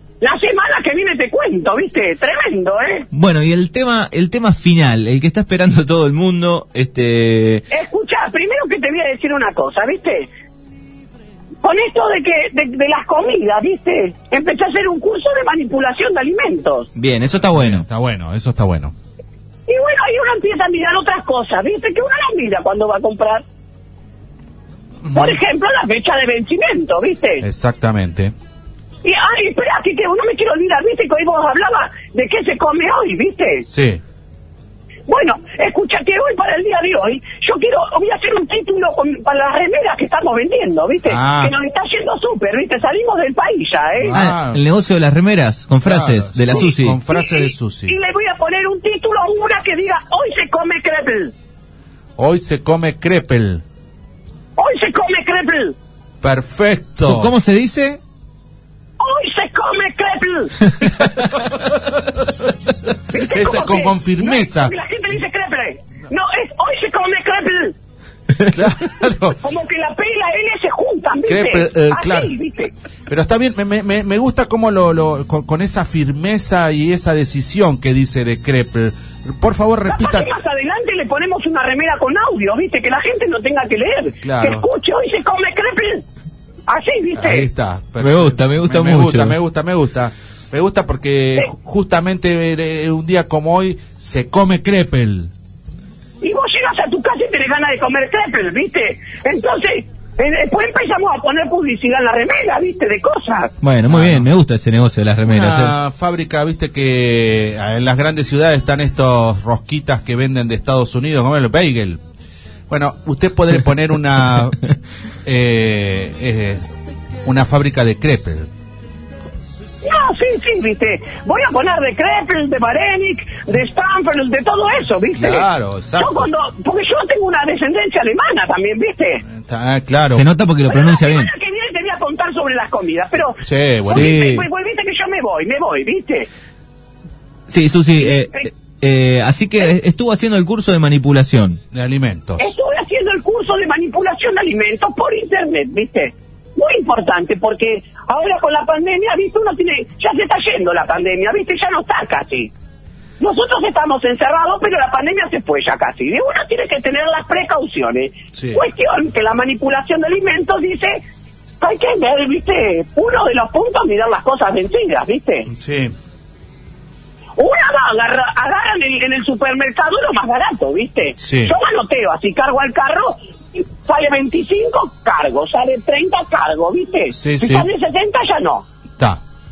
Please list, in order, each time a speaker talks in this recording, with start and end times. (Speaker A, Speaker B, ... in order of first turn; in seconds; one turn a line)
Speaker A: 0.2-3.1
Speaker B: 3.1-7.7
Speaker A: 7.7-10.3
Speaker A: 11.6-16.9
Speaker B: 17.0-17.9
Speaker C: 17.5-18.9
Speaker A: 19.7-23.4
Speaker C: 25.0-25.4
Speaker A: 25.1-27.4
Speaker C: 27.4-28.3
Speaker A: 29.0-33.6
Speaker C: 33.7-34.0
Speaker A: 35.1-44.1
Speaker C: 41.1-41.5
Speaker C: 44.0-44.6
Speaker B: 44.1-47.0
Speaker C: 45.8-48.0
Speaker A: 47.1-51.3
Speaker C: 52.2-53.6
Speaker A: 54.6-55.8
Speaker C: 56.2-57.3
Speaker B: 57.0-58.0
Speaker A: 59.0-60.7
Speaker C: 61.3-62.2
Speaker A: 63.1-67.8
Speaker C: 63.1-64.7
Speaker C: 68.5-69.4
Speaker A: 69.4-72.7
Speaker C: 71.3-72.3
Speaker C: 73.1-80.3
Speaker A: 79.9-86.0
Speaker C: 84.2-84.7
Speaker A: 86.7-87.5
Speaker C: 87.2-95.3
Speaker B: 88.0-89.4
Speaker A: 96.2-103.5
Speaker B: 103.6-105.8
Speaker C: 103.9-104.3
Speaker C: 105.3-112.0
Speaker C: 112.7-114.7
Speaker C: 115.2-116.7
Speaker C: 117.2-118.5
Speaker A: 119.8-129.2
Speaker C: 125.2-126.3
Speaker C: 129.3-130.2
Speaker B: 130.1-131.3
Speaker A: 130.7-136.3
Speaker C: 133.4-134.2
Speaker B: 133.9-134.5
Speaker B: 137.5-141.6
Speaker A: 138.0-138.5
Speaker C: 141.7-142.5
Speaker A: 142.4-152.5
Speaker A: 153.2-161.0
Speaker C: 158.3-158.6
Speaker A: 161.6-165.5
Speaker C: 165.5-165.9
Speaker A: 167.4-178.7
Speaker C: 171.2-171.5
Speaker C: 177.2-177.7